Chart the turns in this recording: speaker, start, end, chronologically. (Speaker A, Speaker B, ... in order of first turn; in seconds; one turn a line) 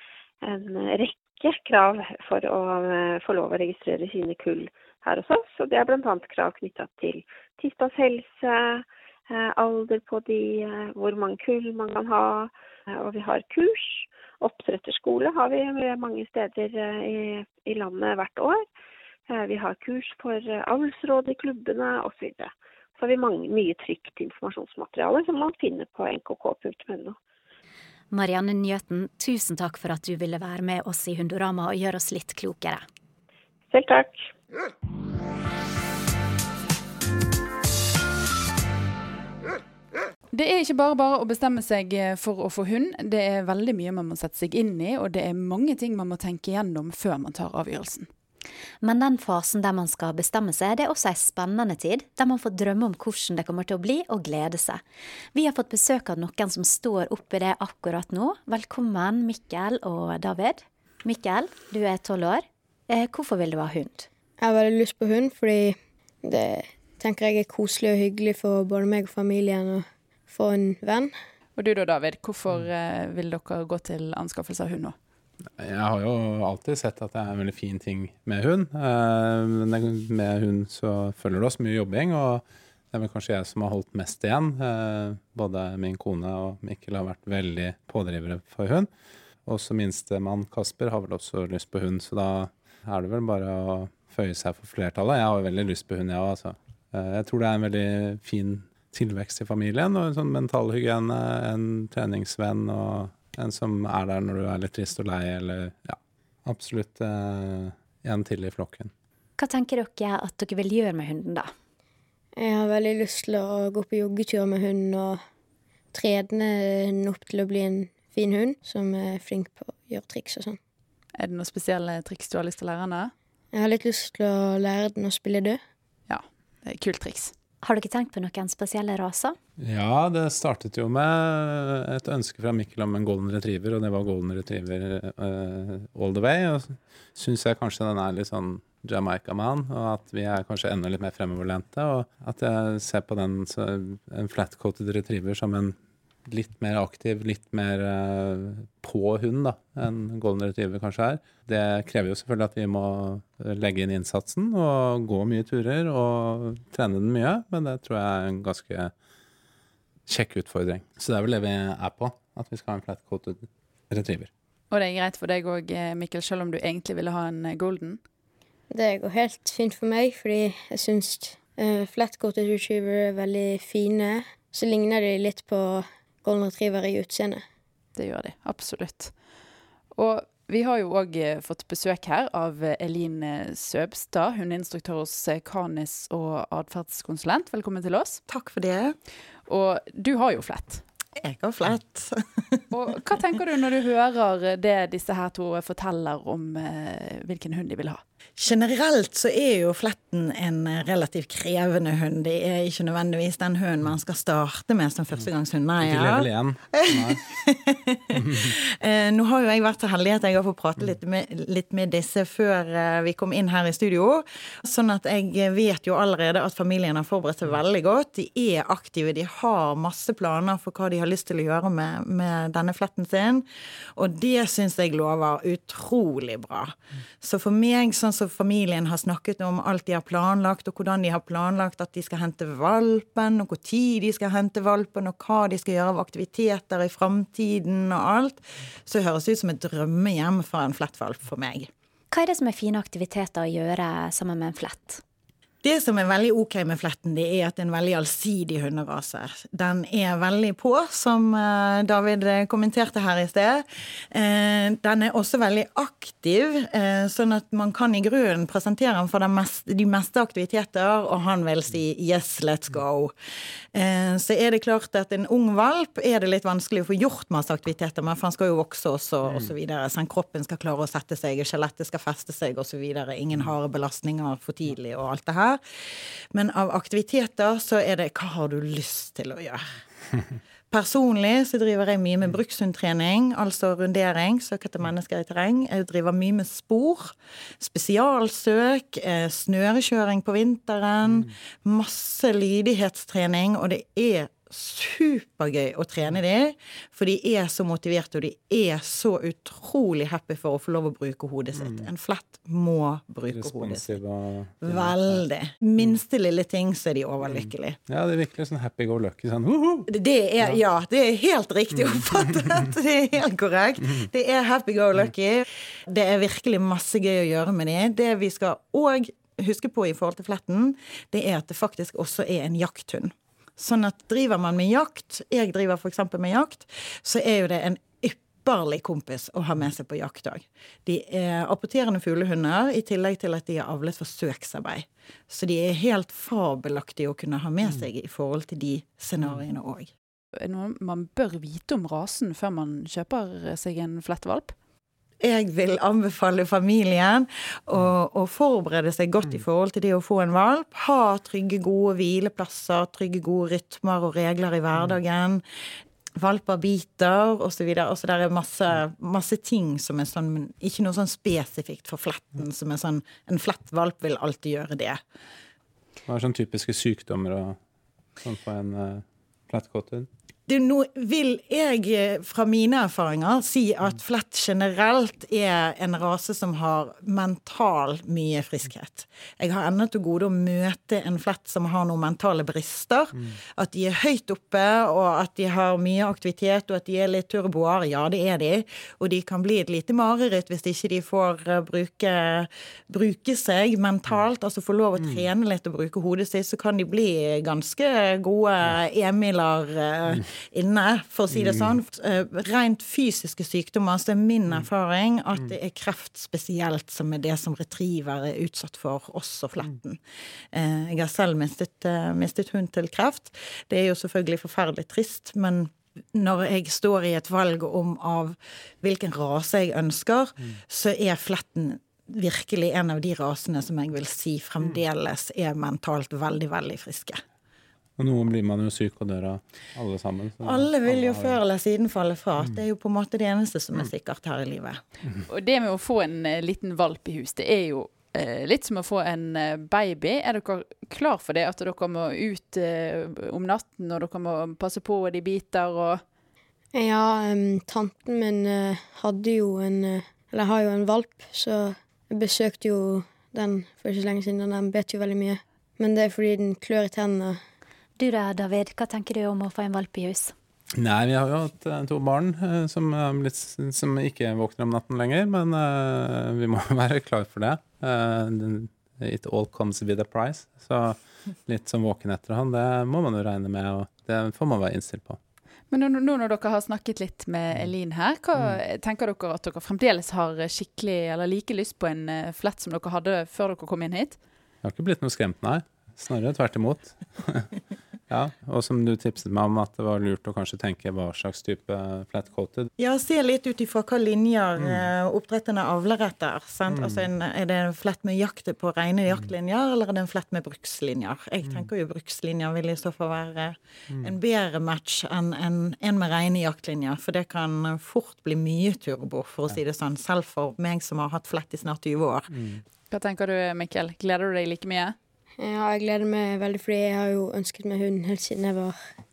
Speaker A: 0.4-18.6
Speaker A: 19.3-27.2
Speaker B: 28.1-32.8
Speaker A: 33.7-34.2
Speaker C: 40.3-48.1
Speaker B: 48.8-54.8
Speaker B: 55.3-64.1
Speaker D: 64.4-71.1
Speaker C: 71.6-75.0
Speaker E: 75.6-88.9
Speaker E: 89.5-108.9
Speaker B: 109.4-111.5
Speaker D: 112.4-115.2
Speaker D: 115.9-120.6
Speaker C: 121.2-123.1
Speaker D: 123.5-125.6
Speaker C: 126.1-127.3
Speaker B: 127.6-129.4
Speaker E: 129.6-158.9
Speaker E: 160.1-164.3
Speaker C: 164.7-168.0
Speaker D: 168.7-177.4
Speaker C: 178.0-179.1
Speaker C: 179.9-188.2
Speaker F: 188.3-189.0
Speaker C: 189.5-190.8
Speaker F: 191.2-192.2
Speaker C: 192.7-198.0
Speaker F: 198.4-241.7
Speaker E: 205.8-207.2
Speaker B: 242.1-245.0
Speaker F: 245.6-263.1
Speaker F: 263.7-275.6
Speaker F: 276.3-279.7
Speaker F: 280.7-304.0
Speaker E: 301.6-301.8
Speaker E: 303.3-305.2
Speaker F: 304.6-307.8
Speaker E: 307.3-309.9
Speaker F: 309.9-339.9
Speaker C: 340.4-344.6
Speaker F: 345.2-355.4
Speaker F: 356.2-365.0
Speaker E: 366.1-367.6
Speaker E: 368.2-370.1
Speaker F: 370.5-410.0
Speaker E: 401.3-401.7
Speaker F: 410.5-427.2
Speaker E: 428.0-431.4
Speaker F: 430.4-434.8
Speaker C: 435.3-446.0
Speaker D: 446.8-457.4
Speaker B: 458.0-460.4
Speaker E: 460.8-475.2
Speaker C: 475.7-484.2
Speaker E: 484.6-487.5
Speaker E: 488.1-492.7
Speaker F: 492.8-512.4
Speaker E: 496.7-497.0
Speaker E: 512.3-512.6
Speaker C: 512.9-515.0
Speaker D: 515.4-518.8